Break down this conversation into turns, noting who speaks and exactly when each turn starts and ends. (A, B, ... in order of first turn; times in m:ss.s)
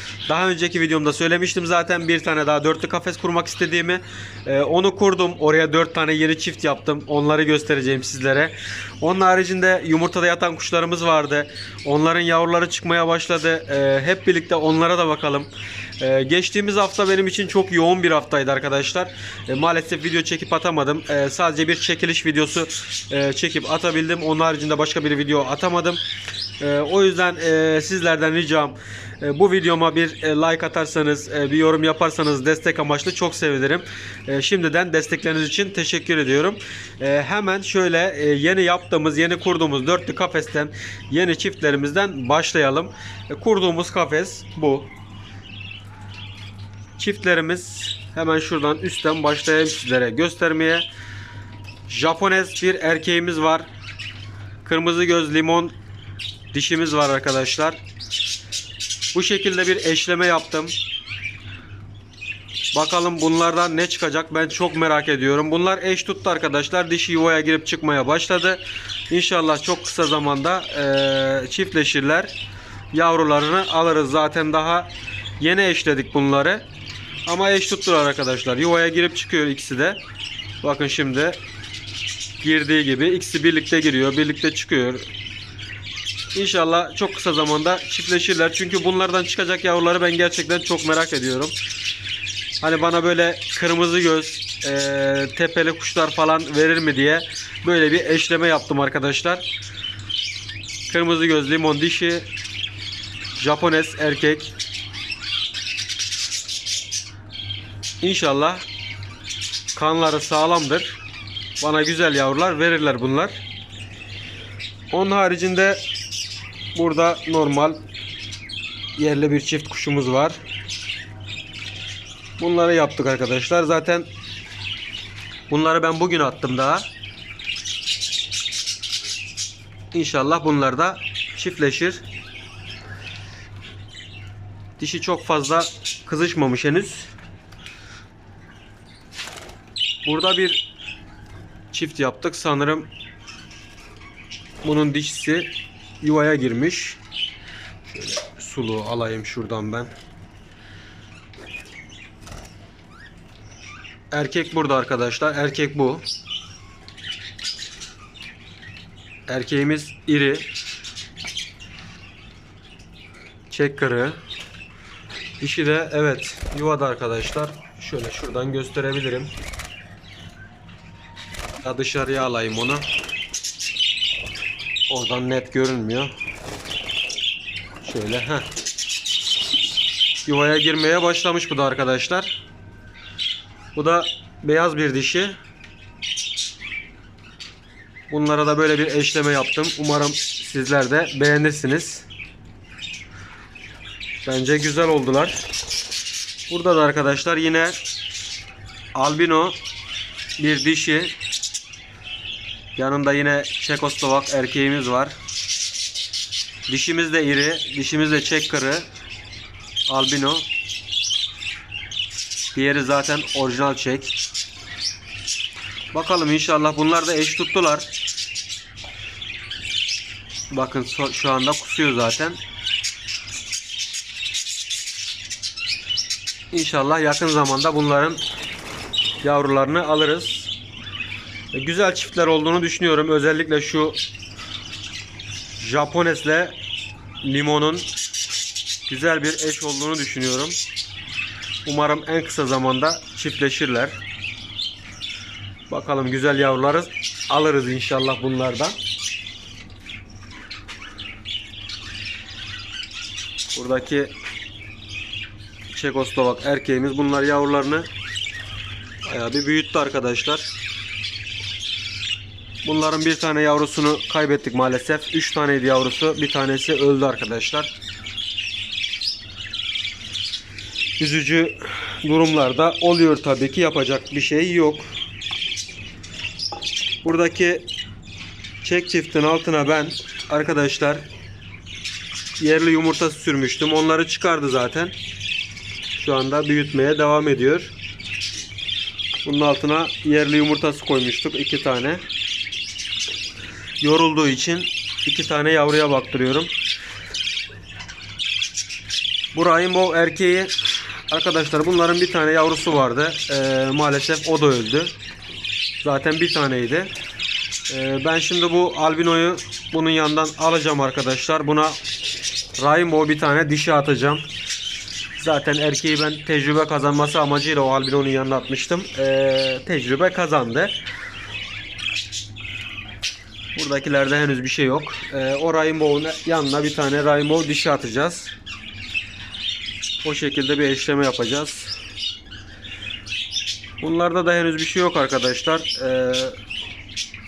0:00.3-0:26.0 A
0:26.6-0:44.9 A
0:47.0-0:50.8 A
0:51.9-0:53.7 A
0:54.6-0:55.7 A
0:56.5-0:57.8 A
0:59.1-1:00.8 A
1:02.7-1:12.3 A
1:12.9-1:16.6 A
1:17.2-1:20.0 A
1:20.6-1:21.4 A
1:22.4-1:25.1 A
1:26.3-1:31.6 A
1:32.6-1:39.4 A
1:40.9-1:42.3 A
1:43.3-1:44.5 A
1:48.0-1:48.6 A
1:49.7-1:51.0 A
1:51.6-1:53.4 A
1:54.9-1:55.8 A
1:56.7-1:57.8 A
1:59.0-2:00.4 A
2:02.4-2:04.1 A
2:05.5-2:06.9 A
2:09.9-2:12.0 A
2:14.8-2:17.1 A
2:20.0-2:20.6 A
2:21.7-2:22.9 A
2:24.6-2:27.0 A
2:27.8-2:29.9 A
2:34.1-2:36.0 A
2:39.3-2:40.5 A
2:43.5-2:44.2 A
2:45.4-2:49.3 A
2:51.6-2:52.9 A
2:54.9-2:56.1 A
2:57.8-2:58.5 A
3:00.2-3:02.3 A
3:03.7-3:05.4 A
3:08.1-3:12.1 A
3:14.2-3:15.4 A
3:16.5-3:17.8 A
3:18.9-3:19.6 A
3:20.4-3:21.1 A
3:22.8-3:25.2 A
3:26.7-3:28.8 A
3:29.9-3:30.5 A
3:32.5-3:34.2 A
3:35.9-3:37.9 A
3:40.5-3:42.4 A
3:46.5-3:48.2 A
3:49.2-3:50.5 A
3:51.5-3:54.0 A
3:55.6-3:56.6 A
3:57.2-3:57.9 A
3:58.9-4:00.6 A
4:01.6-4:04.0 A
4:05.7-4:08.8 A
4:13.5-4:14.1 A
4:15.7-4:17.9 A
4:19.0-4:20.5 A
4:22.6-4:27.7 A
4:31.0-4:34.9 A
4:37.0-4:37.6 A
4:38.6-4:41.1 A
4:42.4-4:44.9 A
4:45.9-4:47.7 A
4:49.2-4:52.0 A
4:53.8-4:56.5 A
4:59.3-5:04.9 A
5:05.8-5:06.9 A
5:07.7-5:11.8 A
5:12.6-5:14.3 A
5:15.2-5:20.7 A
5:23.5-5:28.3 A
5:30.0-5:31.7 A
5:33.8-5:36.4 A